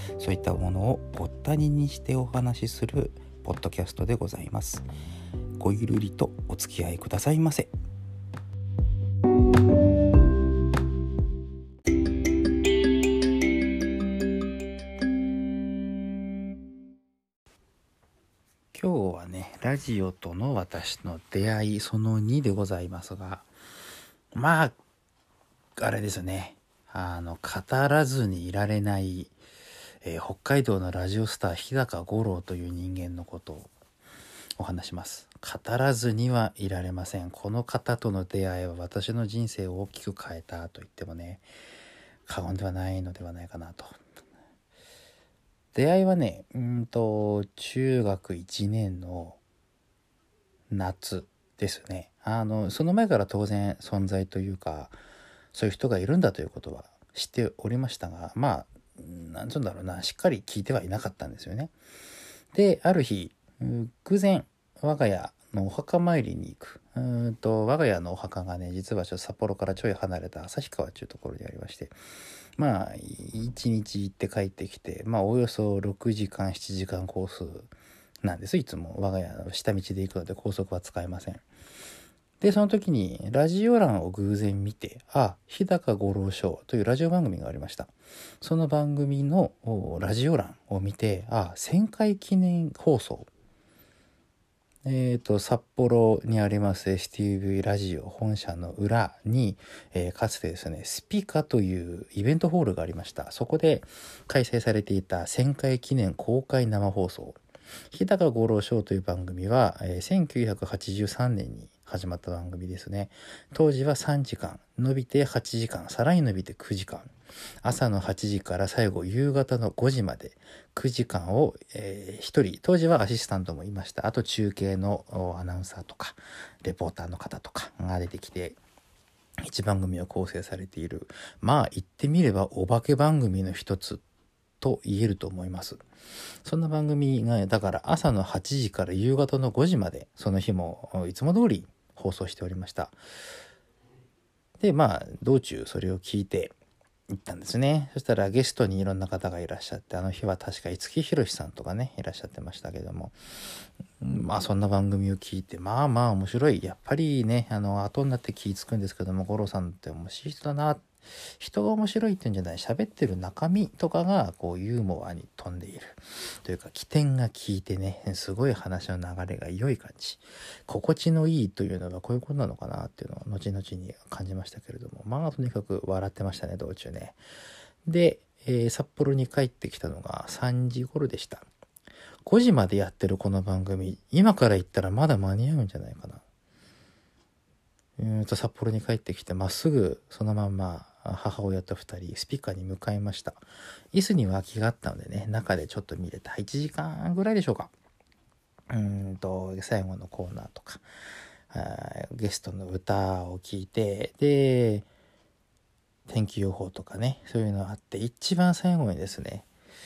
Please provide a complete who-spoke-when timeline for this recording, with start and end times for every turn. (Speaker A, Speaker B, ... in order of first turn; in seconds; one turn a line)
Speaker A: 0.2-4.9
Speaker A: 5.6-7.7
Speaker A: 18.7-23.5
Speaker A: 24.3-24.8
Speaker A: 25.8-29.3
Speaker A: 30.0-33.7
Speaker A: 34.6-41.5
Speaker A: 42.2-44.0
Speaker A: 45.7-49.4
Speaker A: 50.7-55.0
Speaker A: 55.5-61.7
Speaker A: 62.5-71.9
Speaker A: 72.6-77.7
Speaker A: 78.2-81.4
Speaker A: 82.4-93.3
Speaker A: 94.8-107.4
Speaker A: 107.9-117.1
Speaker A: 117.6-128.6
Speaker A: 129.4-134.0
Speaker A: 134.6-135.8
Speaker A: 136.4-143.0
Speaker A: 144.6-146.5
Speaker A: 147.1-153.2
Speaker A: 154.0-177.2
Speaker A: 177.8-181.4
Speaker A: 182.2-186.2
Speaker A: 188.0-197.7
Speaker A: 198.7-200.8
Speaker A: 201.5-204.8
Speaker A: 206.1-209.5